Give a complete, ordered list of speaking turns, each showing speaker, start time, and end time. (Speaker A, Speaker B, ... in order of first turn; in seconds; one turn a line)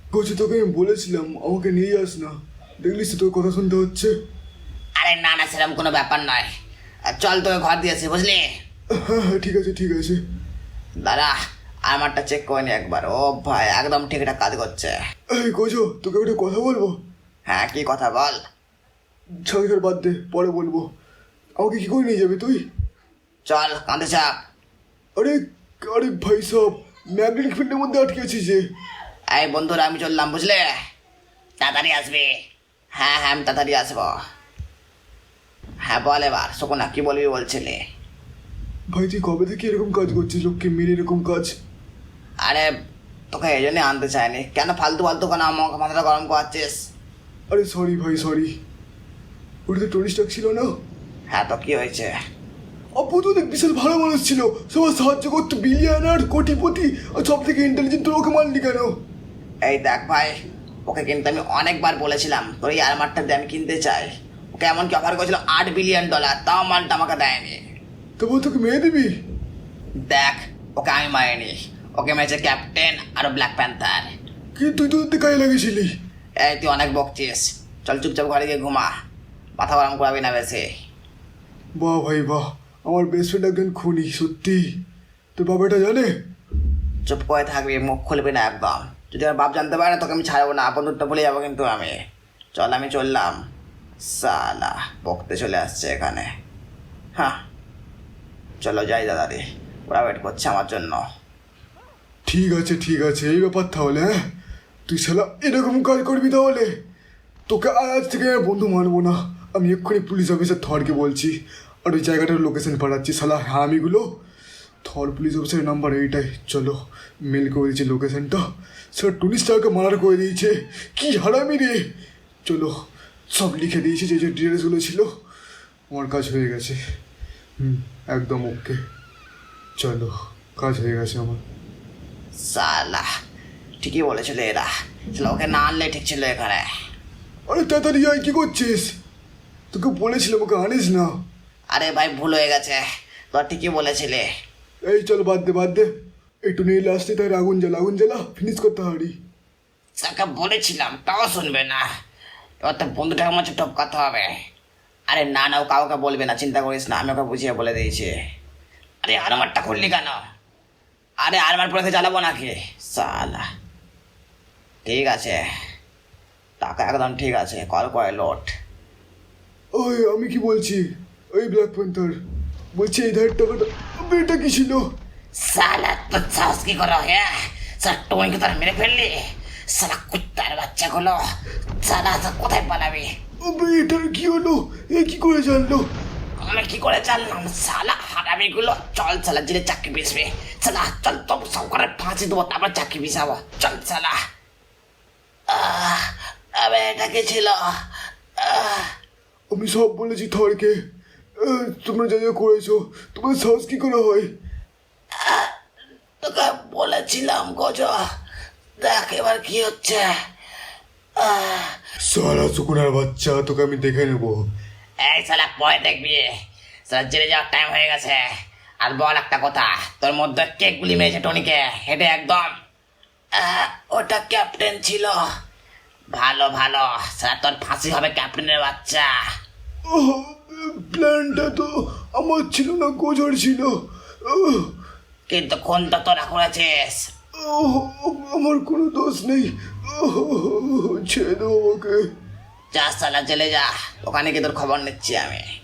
Speaker A: 0.1-4.1
Speaker B: 5.0-6.5
Speaker B: 7.1-8.4
Speaker A: 8.9-10.2
Speaker B: 11.0-11.3
Speaker B: 11.9-14.9
Speaker A: 15.3-17.0
Speaker B: 17.5-18.4
Speaker A: 19.4-20.9
Speaker A: 21.6-22.6
Speaker B: 23.4-24.3
Speaker A: 25.2-28.6
Speaker B: 29.3-30.7
Speaker B: 31.6-32.3
Speaker B: 33.0-34.1
Speaker B: 35.9-37.8
Speaker A: 38.9-41.5
Speaker B: 42.4-42.7
Speaker B: 43.3-46.8
Speaker A: 47.5-48.5
Speaker A: 49.7-50.7
Speaker B: 51.3-52.1
Speaker A: 53.0-58.9
Speaker B: 59.6-60.3
Speaker B: 60.9-67.6
Speaker A: 68.2-69.1
Speaker B: 70.0-74.1
Speaker A: 74.5-75.9
Speaker B: 76.4-78.9
Speaker B: 79.6-80.7
Speaker A: 81.8-84.7
Speaker A: 85.3-86.1
Speaker B: 87.1-91.9
Speaker B: 92.5-93.4
Speaker B: 94.0-96.3
Speaker B: 98.6-101.0
Speaker A: 102.2-104.2
Speaker A: 104.9-106.7
Speaker A: 107.5-114.2
Speaker A: 114.8-118.4
Speaker A: 118.9-121.8
Speaker A: 122.5-122.7
Speaker A: 123.3-125.1
Speaker A: 125.9-126.8
Speaker A: 127.6-128.8
Speaker A: 129.8-131.4
Speaker B: 132.4-133.1
Speaker B: 133.8-136.7
Speaker A: 137.5-138.9
Speaker A: 139.7-141.1
Speaker B: 141.7-144.3
Speaker A: 144.8-145.9
Speaker A: 146.5-149.1
Speaker B: 150.0-151.8
Speaker B: 152.6-154.3
Speaker B: 155.1-158.1
Speaker B: 159.0-160.2
Speaker B: 161.2-163.4
Speaker B: 164.8-165.4
Speaker B: 166.6-168.5
Speaker A: 169.7-172.2
Speaker A: 172.7-174.8
Speaker B: 175.4-181.2
Speaker B: 181.8-183.1
Speaker A: 183.4-185.9
Speaker B: 186.4-194.2
Speaker B: 195.5-197.7
Speaker B: 198.4-198.9
Speaker A: 199.5-200.7
Speaker A: 201.4-204.3
Speaker B: 205.2-205.5
Speaker B: 206.2-208.0
Speaker B: 208.8-210.1
Speaker B: 211.2-211.7
Speaker A: 212.0-214.4
Speaker B: 215.0-216.3
Speaker B: 216.9-218.2
Speaker B: 218.8-222.5
Speaker B: 223.4-225.2
Speaker B: 226.1-229.1
Speaker A: 229.9-234.7
Speaker B: 235.3-237.0
Speaker A: 237.4-242.0
Speaker B: 242.7-245.4